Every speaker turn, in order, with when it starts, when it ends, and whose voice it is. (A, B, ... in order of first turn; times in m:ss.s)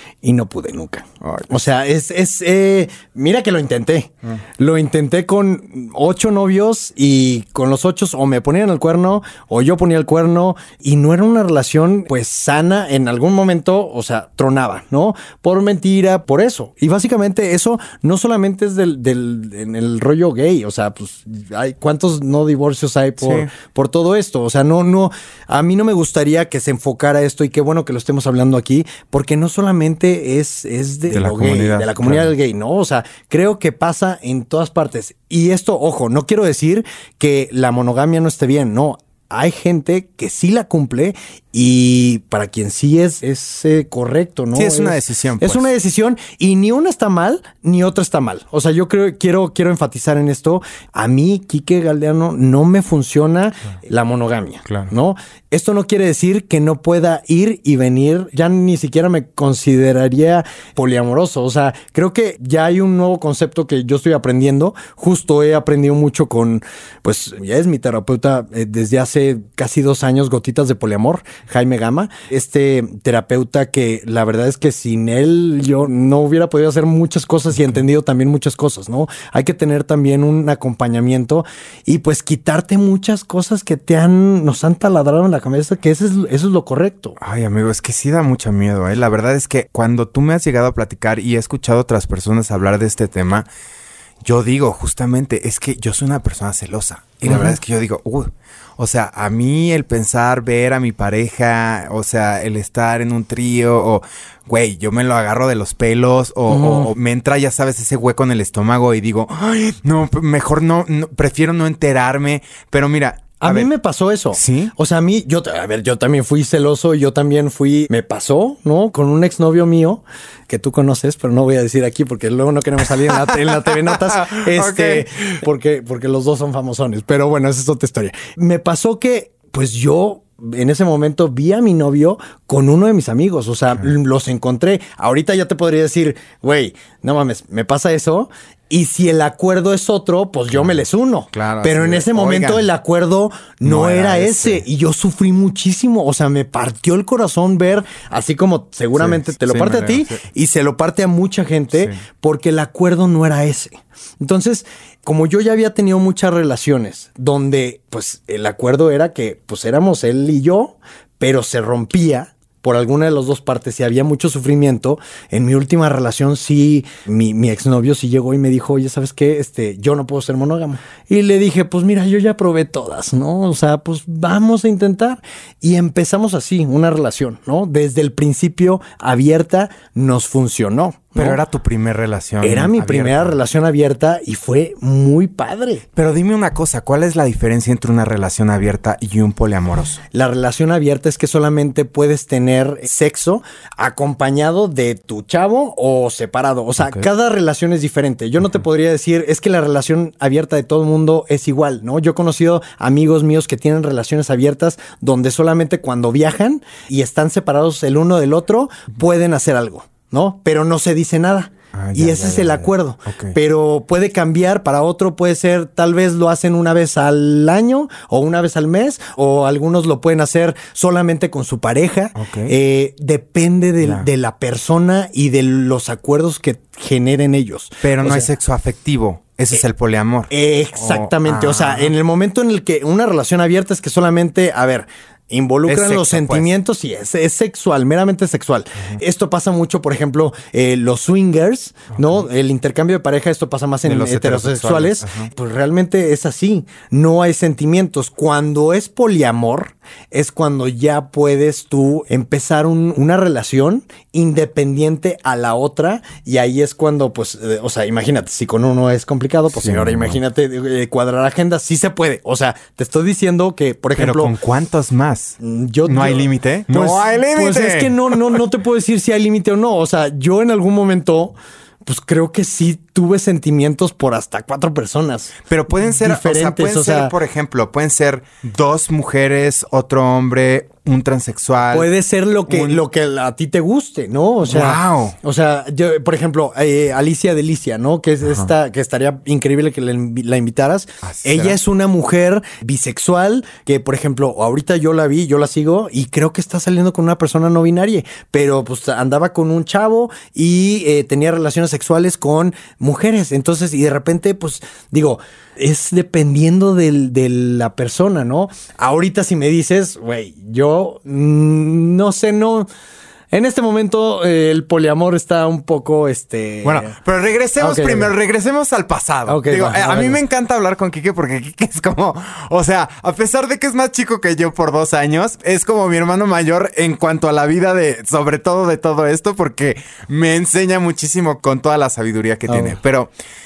0:00.2-1:27.2 A
0:01.2-0:01.5 B
0:23.2-0:23.5 B
0:31.1-0:32.3 B
0:44.5-0:45.7 B
1:27.2-1:33.5 B
1:34.2-1:53.7 B
1:37.2-1:37.6 A
1:46.5-1:46.9 A
1:53.4-3:01.4 A
1:54.3-1:54.7 B
2:03.1-2:05.4 B
2:21.3-2:22.6 B
2:23.6-2:24.6 B
2:28.9-2:30.2 B
2:31.7-2:32.0 B
3:01.2-3:03.4 B
3:02.4-3:05.8 A
3:06.0-3:10.0 B
3:10.1-3:48.3 A
3:16.8-3:17.1 B
3:31.7-3:33.4 B
3:42.1-3:42.5 B
3:43.8-3:44.1 B
3:47.8-3:51.9 B
3:50.3-4:24.3 A
3:55.7-3:56.5 B
4:03.8-4:05.3 B
4:19.5-4:20.2 B
4:24.0-4:28.4 B
4:25.4-4:31.3 A
4:31.8-4:37.1 A
4:35.5-4:41.9 B
4:41.7-5:12.7 A
4:42.5-4:42.8 B
4:44.4-4:45.2 B
4:48.2-4:48.5 B
4:51.0-4:51.6 B
5:13.3-5:17.0 A
5:16.6-5:33.1 B
5:17.6-5:18.1 A
5:19.3-5:20.2 A
5:32.5-5:32.8 A